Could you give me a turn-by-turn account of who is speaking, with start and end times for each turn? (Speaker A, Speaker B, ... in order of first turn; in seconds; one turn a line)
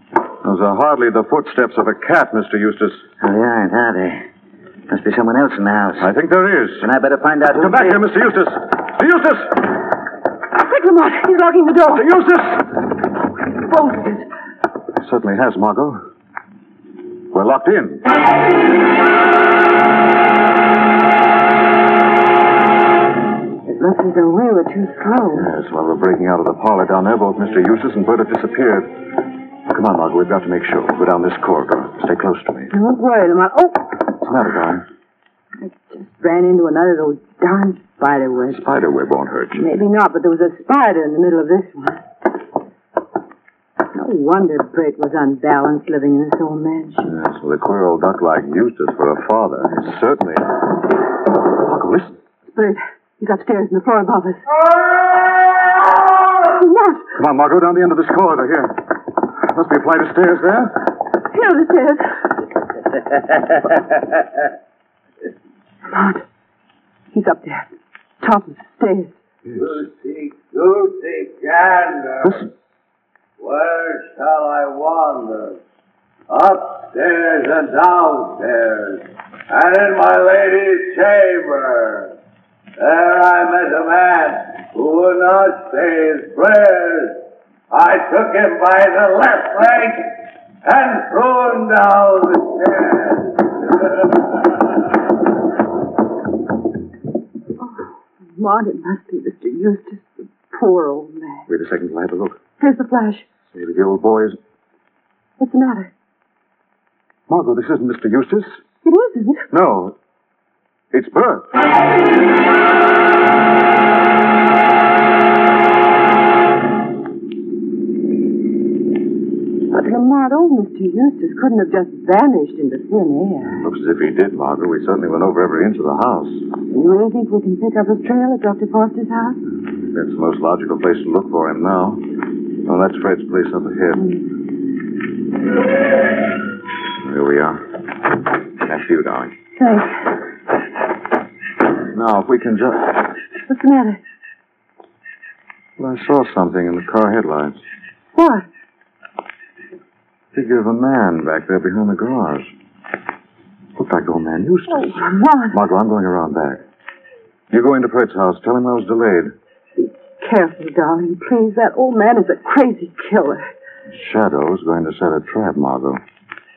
Speaker A: 0.4-3.1
Speaker B: 3.2-4.2
Speaker B: 4.9-6.1
Speaker A: 6.0-6.9
Speaker B: 6.8-8.0
Speaker A: 7.5-9.7
Speaker C: 10.5-12.3
Speaker A: 11.9-12.6
Speaker C: 13.6-14.3
Speaker A: 15.0-16.1
Speaker A: 17.3-18.1
Speaker C: 23.7-25.5
Speaker A: 25.3-29.0
Speaker A: 29.7-32.7
Speaker C: 32.7-34.0
Speaker A: 34.2-34.8
Speaker C: 35.6-38.6
Speaker A: 38.5-39.7
Speaker C: 39.5-42.0
Speaker C: 43.9-47.1
Speaker A: 47.0-50.6
Speaker A: 51.6-52.1
Speaker C: 52.5-54.4
Speaker C: 56.4-57.0
Speaker A: 57.1-58.9
Speaker A: 59.4-60.9
Speaker C: 61.3-62.1
Speaker C: 65.9-66.2
Speaker C: 67.1-69.2
Speaker A: 69.5-69.7
Speaker D: 69.6-72.4
Speaker A: 72.2-72.5
Speaker D: 73.4-75.6
Speaker D: 76.3-82.1
Speaker D: 82.8-87.2
Speaker D: 87.7-90.1
Speaker D: 90.6-93.3
Speaker C: 97.6-101.5
Speaker A: 101.5-102.4
Speaker C: 102.6-103.3
Speaker A: 103.5-104.4
Speaker C: 105.4-105.9
Speaker A: 107.3-108.6
Speaker C: 108.8-109.5
Speaker A: 109.5-110.0
Speaker A: 110.9-111.7
Speaker C: 119.7-123.6
Speaker A: 123.5-126.5
Speaker C: 126.7-129.4
Speaker A: 129.8-134.1
Speaker A: 137.0-137.8
Speaker A: 138.6-139.3
Speaker C: 139.6-140.1
Speaker A: 141.9-143.1
Speaker C: 143.5-144.0
Speaker A: 145.8-147.6
Speaker C: 148.2-148.5
Speaker A: 150.3-152.5
Speaker A: 153.8-156.6
Speaker C: 154.8-155.6
Speaker A: 157.5-159.3
Speaker C: 159.8-163.5
Speaker A: 163.9-166.0